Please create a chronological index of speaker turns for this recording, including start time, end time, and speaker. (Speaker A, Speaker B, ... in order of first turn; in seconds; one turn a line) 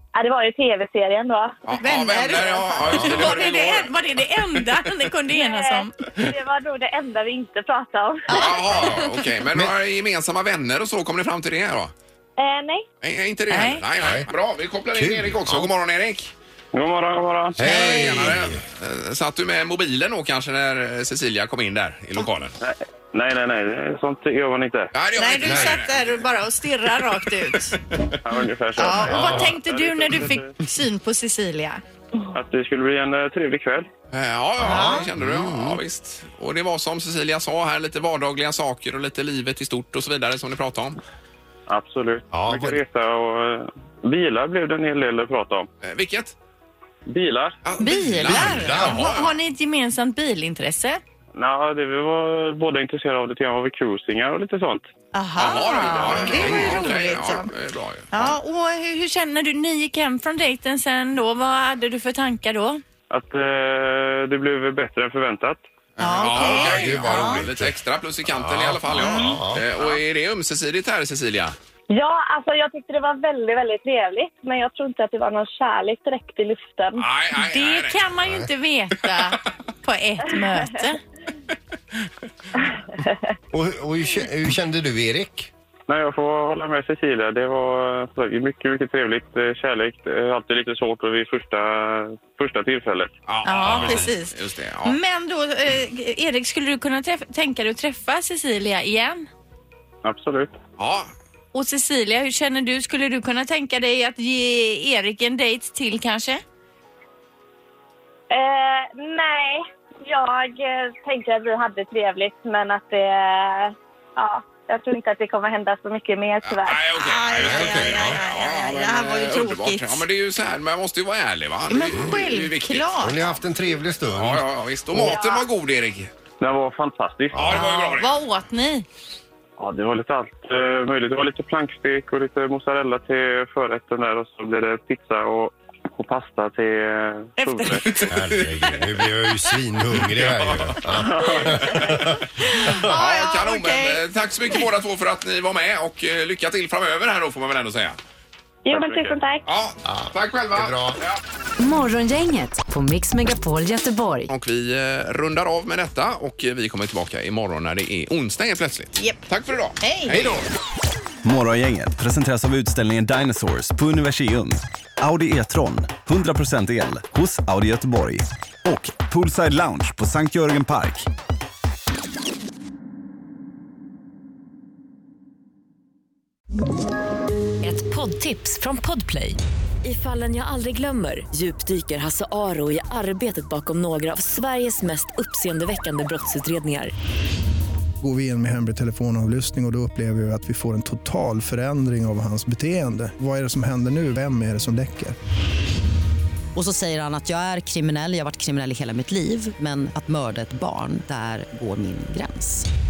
Speaker A: 0.1-1.6
Speaker B: 1.6-3.9
Speaker C: 1.8-5.9
Speaker D: 2.9-3.2
Speaker A: 5.3-8.4
Speaker C: 8.3-9.0
Speaker B: 8.3-11.9
Speaker D: 8.7-9.0
Speaker A: 12.4-12.8
Speaker B: 13.0-16.3
Speaker C: 13.5-13.8
Speaker D: 14.0-14.3
Speaker D: 14.9-15.7
Speaker E: 16.7-18.1
Speaker D: 17.6-18.6
Speaker B: 17.6-22.5
Speaker E: 22.6-24.9
Speaker B: 24.9-26.2
Speaker C: 25.2-27.8
Speaker D: 25.4-25.8
Speaker E: 28.2-30.5
Speaker C: 28.8-31.8
Speaker D: 29.0-29.6
Speaker E: 32.3-33.9
Speaker B: 34.1-41.0
Speaker D: 34.6-35.8
Speaker C: 34.7-35.0
Speaker E: 41.7-45.7
Speaker D: 42.3-42.8
Speaker B: 45.8-46.3
Speaker E: 47.1-47.6
Speaker B: 47.6-49.3
Speaker C: 47.8-51.0
Speaker D: 48.2-49.1
Speaker E: 51.4-54.9
Speaker C: 55.1-57.5
Speaker B: 55.4-58.3
Speaker D: 56.1-56.9
Speaker C: 58.1-62.8
Speaker E: 63.1-65.6
Speaker B: 66.0-71.5
Speaker C: 66.0-67.4
Speaker D: 66.2-69.7
Speaker C: 69.0-69.4
Speaker A: 71.9-77.0
Speaker B: 76.9-78.0
Speaker C: 77.4-81.0
Speaker D: 83.5-85.5
Speaker E: 85.9-93.1
Speaker B: 93.3-95.0
Speaker C: 93.4-94.3
Speaker D: 93.7-94.1
Speaker C: 94.8-99.3
Speaker E: 100.0-100.5
Speaker B: 100.8-101.1
Speaker C: 101.5-106.4
Speaker A: 108.3-116.8
Speaker B: 116.4-123.4
Speaker C: 117.0-120.0
Speaker D: 117.4-118.2
Speaker C: 121.7-123.2
Speaker D: 123.0-125.2
Speaker B: 124.1-126.1
Speaker A: 125.1-125.4
Speaker E: 126.4-127.6
Speaker D: 127.3-127.7
Speaker B: 127.4-128.1
Speaker C: 127.5-128.8
Speaker E: 129.6-138.1
Speaker C: 137.4-138.1
Speaker D: 138.1-143.0
Speaker B: 140.2-141.9
Speaker C: 142.4-144.0
Speaker B: 142.8-148.0
Speaker A: 148.6-149.4
Speaker E: 148.7-149.1
Speaker B: 149.4-151.2
Speaker D: 149.8-151.0
Speaker F: 151.6-154.3
Speaker B: 154.3-160.5
Speaker C: 159.0-159.2
Speaker C: 159.8-160.3
Speaker G: 161.2-171.1
Speaker H: 177.6-186.9
Speaker I: 188.0-195.2
Speaker J: 196.5-202.7